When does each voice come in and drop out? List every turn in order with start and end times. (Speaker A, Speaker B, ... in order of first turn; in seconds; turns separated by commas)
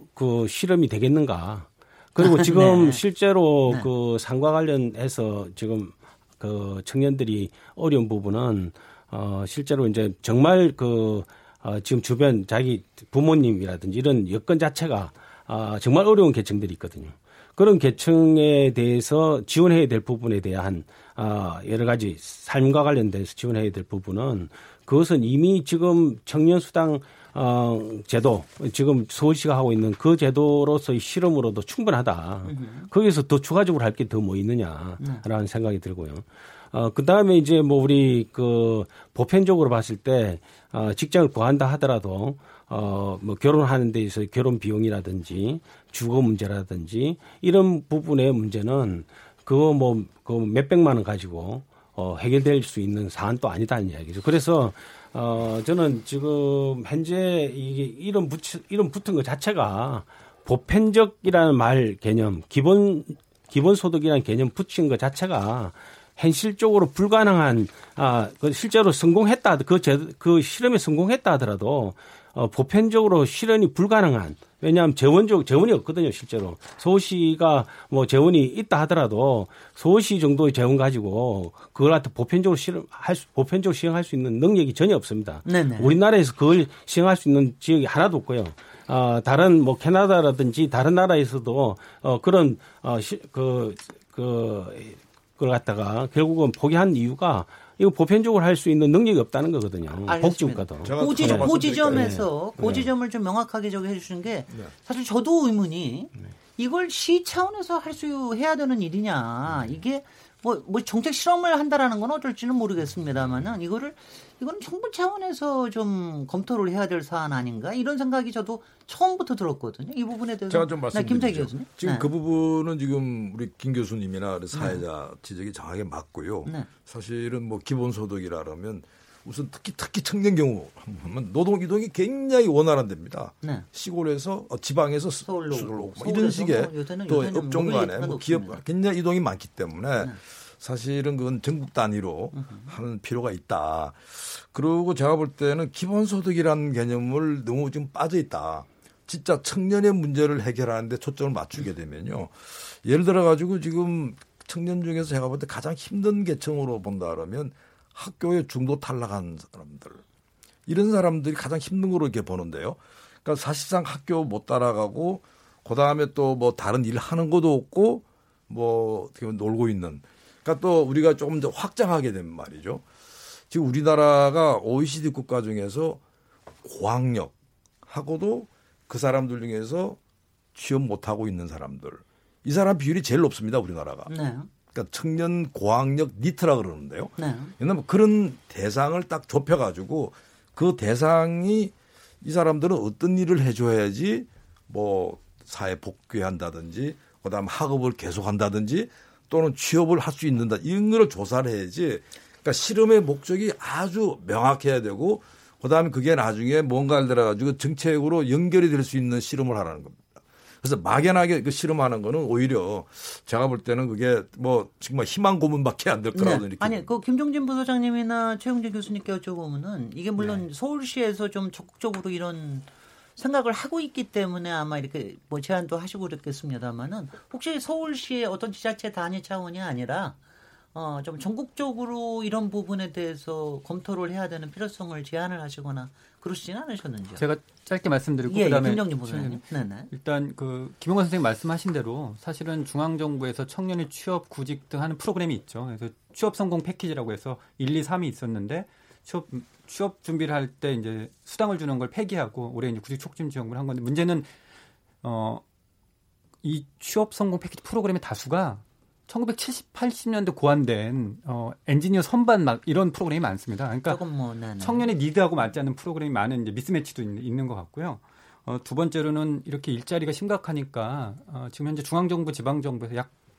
Speaker A: 0.1-102.9, Speaker B: 2.2-3.0, Speaker B: 32.4-32.9, Speaker B: 85.5-86.0, Speaker B: 100.1-122.1, Speaker C: 100.8-102.2, Speaker C: 120.5-160.0, Speaker B: 124.5-124.8, Speaker B: 135.2-138.6, Speaker B: 142.3-142.7, Speaker C: 160.7-172.8, Speaker C: 173.5-176.0, Speaker C: 176.6-177.3, Speaker C: 177.9-180.0, Speaker C: 180.6-184.1, Speaker B: 184.1-184.5, Speaker C: 184.7-210.0, Speaker B: 187.2-187.5, Speaker C: 210.6-216.9, Speaker B: 216.2-230.2, Speaker B: 230.7-237.2, Speaker D: 237.2-254.3, Speaker B: 238.3-239.9, Speaker D: 255.0-255.4, Speaker D: 256.4-264.0, Speaker B: 263.9-264.9, Speaker D: 264.6-273.1